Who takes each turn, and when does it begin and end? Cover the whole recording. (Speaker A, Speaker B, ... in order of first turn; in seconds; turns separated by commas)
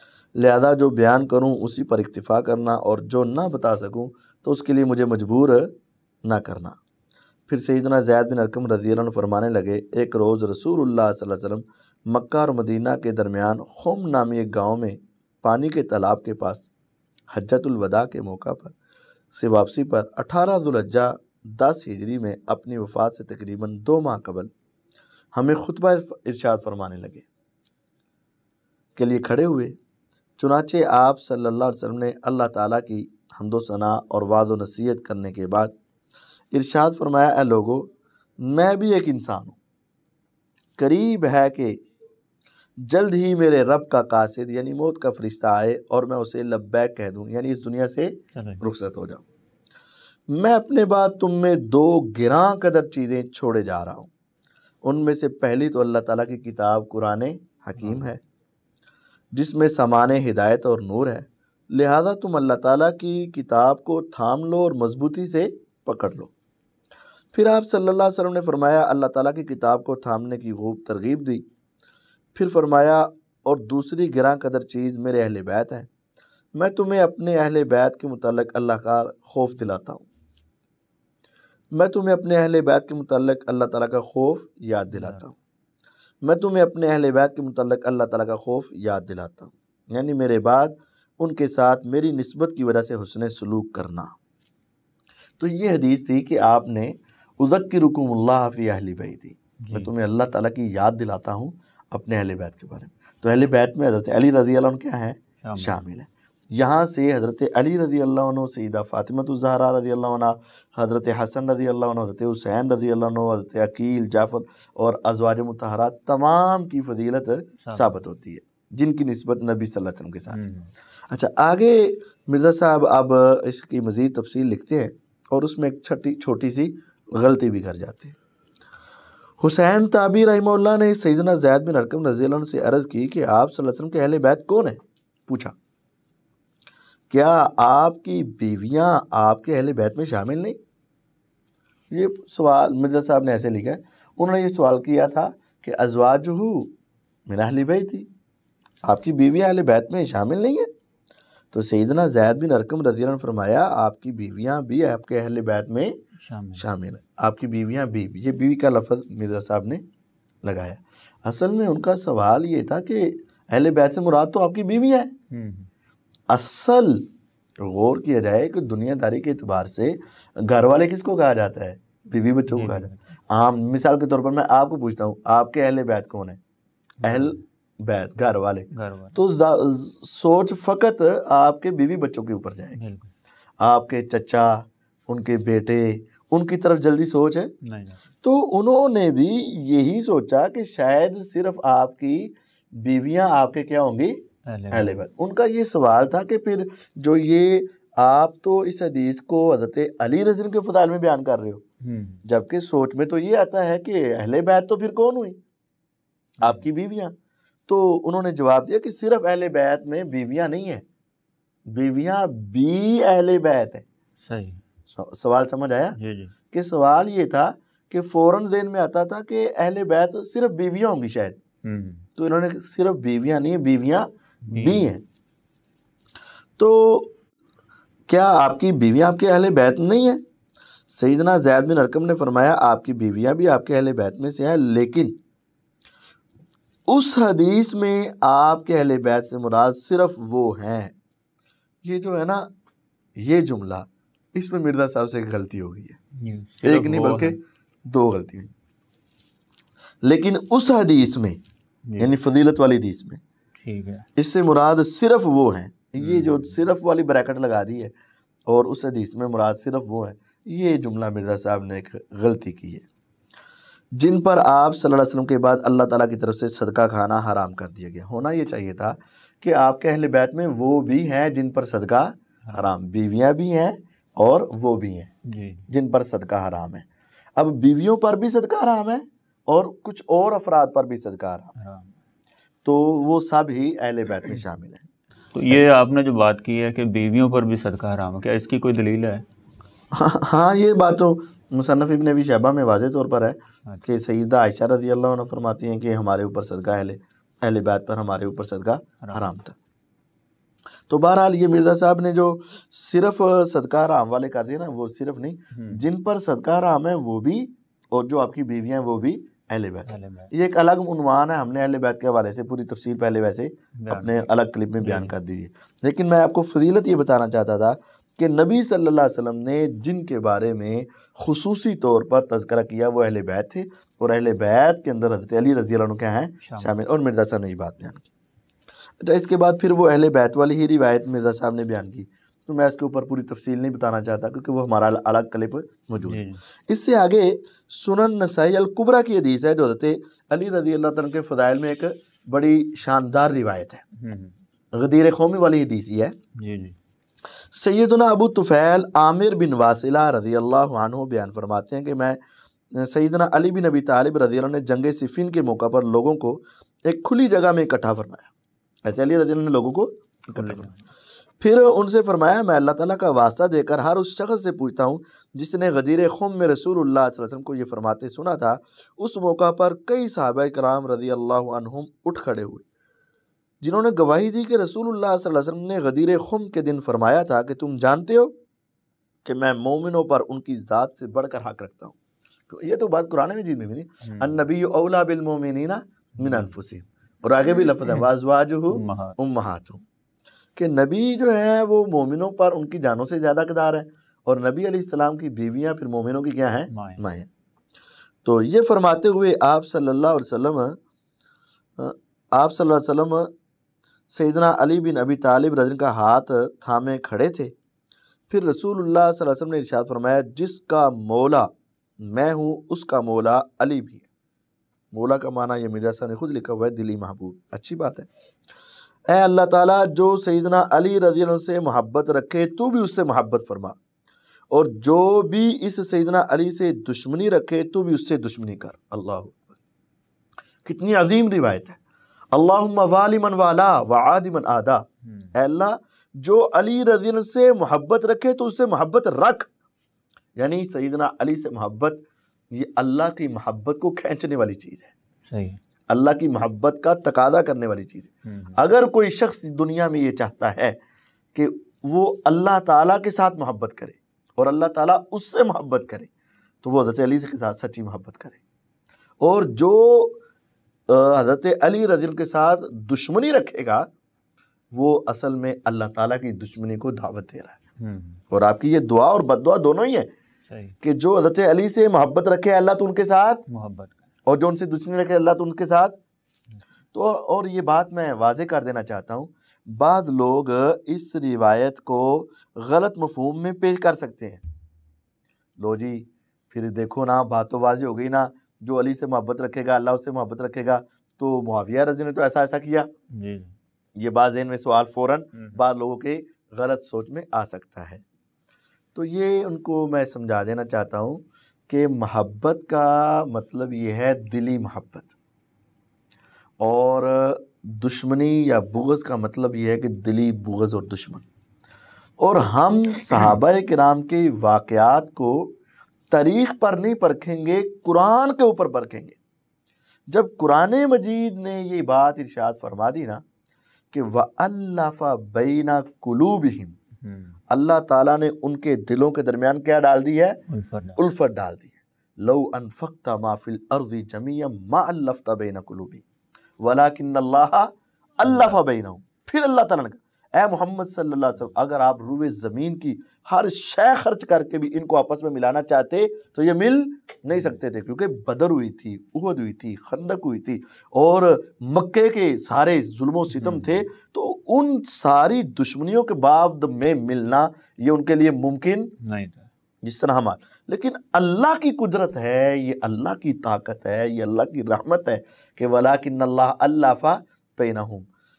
Speaker A: 0.3-6.8, Speaker A: 7.5-16.7, Speaker A: 17.3-18.7, Speaker A: 19.3-24.5, Speaker A: 25.3-27.2, Speaker A: 28.9-29.8, Speaker A: 30.4-35.7, Speaker A: 36.5-39.6, Speaker A: 40.8-41.8, Speaker A: 42.8-49.2, Speaker B: 48.3-48.6, Speaker A: 50.3-54.1, Speaker A: 54.8-58.2, Speaker B: 57.8-58.1, Speaker A: 59.3-66.3, Speaker A: 67.3-71.4, Speaker A: 72.3-75.9, Speaker A: 76.5-80.1, Speaker A: 81.7-85.3, Speaker B: 84.9-85.2, Speaker A: 86.2-94.1, Speaker A: 95.4-120.4, Speaker B: 99.6-99.9, Speaker B: 105.4-105.8, Speaker B: 117.6-118.0, Speaker B: 120.3-120.7, Speaker A: 121.1-128.2, Speaker A: 129.4-135.6, Speaker A: 137.1-140.6, Speaker A: 141.9-146.7, Speaker A: 147.3-148.1, Speaker A: 148.9-150.7, Speaker A: 151.5-155.9, Speaker B: 156.1-156.7, Speaker A: 156.6-159.8, Speaker A: 160.4-165.1, Speaker B: 165.3-165.7, Speaker A: 166.3-167.1, Speaker A: 167.6-176.4, Speaker B: 172.5-173.1, Speaker B: 177.0-177.4, Speaker A: 177.0-182.8, Speaker B: 178.7-179.2, Speaker B: 182.8-183.1, Speaker A: 183.6-187.5, Speaker B: 187.6-188.0, Speaker A: 188.2-194.2, Speaker B: 194.5-195.0, Speaker A: 194.7-201.6, Speaker B: 201.8-202.2, Speaker A: 202.2-205.4, Speaker B: 206.4-206.7, Speaker A: 206.4-207.1, Speaker A: 207.7-210.8, Speaker A: 211.7-213.8, Speaker B: 214.2-214.6, Speaker A: 214.9-216.0, Speaker B: 216.0-216.3, Speaker A: 216.5-221.4, Speaker B: 221.6-222.1, Speaker A: 222.2-225.0, Speaker B: 224.4-224.9, Speaker A: 226.6-227.1, Speaker A: 228.1-230.2, Speaker A: 230.9-235.2, Speaker A: 236.9-240.9, Speaker A: 241.8-242.5, Speaker A: 243.2-246.0, Speaker B: 246.1-247.3, Speaker A: 246.6-248.5, Speaker A: 250.0-251.4, Speaker A: 252.0-253.2, Speaker B: 253.6-254.1, Speaker A: 254.2-257.9, Speaker B: 256.0-256.6, Speaker A: 258.5-262.9, Speaker A: 263.9-275.1, Speaker B: 275.2-275.7, Speaker A: 275.7-276.9, Speaker A: 277.4-281.5, Speaker B: 281.6-281.9, Speaker A: 282.6-284.9, Speaker B: 285.3-289.2, Speaker A: 289.9-299.6, Speaker B: 299.0-299.3, Speaker A: 300.9-328.1, Speaker B: 305.5-305.8, Speaker B: 309.9-310.3, Speaker B: 313.8-314.3, Speaker B: 314.8-315.1, Speaker B: 326.4-326.8, Speaker A: 329.0-343.8, Speaker B: 336.0-336.4, Speaker B: 343.9-344.4, Speaker A: 344.7-346.1, Speaker B: 346.4-346.8, Speaker A: 347.5-352.2, Speaker A: 352.7-358.3, Speaker A: 358.8-360.7, Speaker B: 360.3-360.9, Speaker A: 361.4-372.6, Speaker A: 373.6-378.4, Speaker A: 379.2-381.9, Speaker A: 382.5-389.8, Speaker B: 384.0-384.4, Speaker B: 386.2-386.5, Speaker B: 388.7-389.2, Speaker A: 390.6-397.3, Speaker B: 396.7-397.0, Speaker A: 398.2-400.8, Speaker A: 401.8-403.3, Speaker A: 404.1-407.5, Speaker A: 408.3-414.1, Speaker A: 414.9-418.1, Speaker A: 419.1-423.8, Speaker A: 424.5-429.6, Speaker A: 430.6-431.8, Speaker A: 432.3-439.5, Speaker B: 435.0-435.3, Speaker A: 440.4-442.0, Speaker A: 442.5-444.9, Speaker B: 445.3-445.6, Speaker A: 445.9-450.8, Speaker B: 448.2-448.6, Speaker A: 451.3-456.1, Speaker A: 456.6-458.4, Speaker A: 459.2-460.2, Speaker A: 460.9-463.9, Speaker A: 464.7-467.6, Speaker B: 467.8-468.2, Speaker A: 468.3-470.1, Speaker B: 470.5-470.8, Speaker A: 470.8-473.4, Speaker B: 473.5-474.0, Speaker A: 474.2-476.0, Speaker A: 476.9-484.4, Speaker A: 485.6-492.9, Speaker B: 493.1-493.5, Speaker A: 494.0-498.0, Speaker B: 495.3-495.6, Speaker A: 498.9-505.1, Speaker A: 506.6-511.2, Speaker A: 512.2-515.5, Speaker A: 516.1-519.2, Speaker A: 520.1-523.2, Speaker A: 523.9-526.8, Speaker B: 527.0-527.4, Speaker A: 527.5-530.4, Speaker B: 530.5-531.0, Speaker A: 531.0-536.0, Speaker A: 536.6-558.9, Speaker B: 538.2-538.6, Speaker B: 553.3-553.8, Speaker B: 559.0-559.5, Speaker A: 559.8-568.1